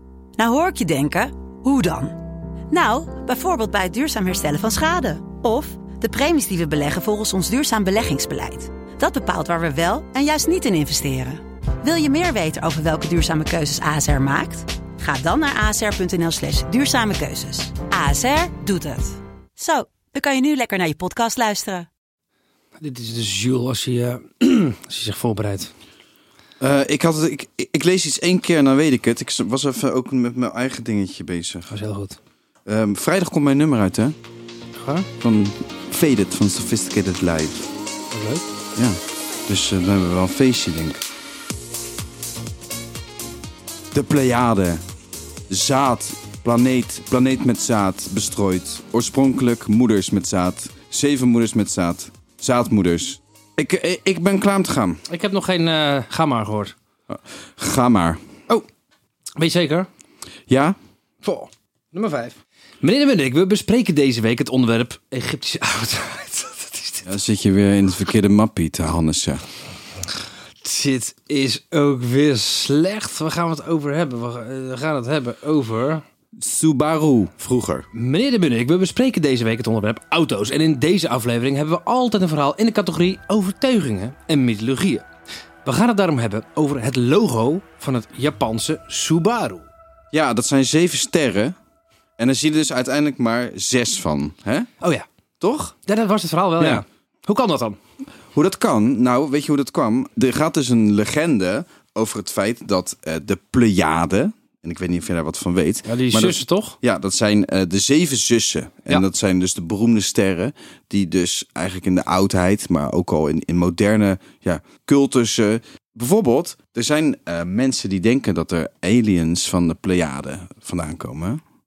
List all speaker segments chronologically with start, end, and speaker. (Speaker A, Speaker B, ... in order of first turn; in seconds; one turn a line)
Speaker A: 0.4-2.2
Speaker A: 2.7-21.9
Speaker B: 22.8-25.7
Speaker C: 26.6-31.8
Speaker B: 31.7-32.2
Speaker C: 32.6-34.2
Speaker B: 34.8-35.1
Speaker C: 35.2-37.7
Speaker B: 38.1-38.4
Speaker C: 38.8-41.0
Speaker C: 43.9-44.8
Speaker C: 45.5-55.0
Speaker B: 55.1-56.8
Speaker C: 57.1-58.2
Speaker B: 59.4-59.9
Speaker C: 60.5-60.8
Speaker B: 61.2-67.1
Speaker C: 67.1-69.4
Speaker B: 70.6-76.0
Speaker C: 76.4-77.9
Speaker B: 77.9-85.0
Speaker B: 85.7-89.7
Speaker C: 90.1-91.6
Speaker C: 92.2-94.7
Speaker B: 94.8-95.1
Speaker C: 95.4-95.8
Speaker B: 95.9-97.8
Speaker C: 96.6-96.8
Speaker C: 98.3-121.4
Speaker B: 105.9-106.8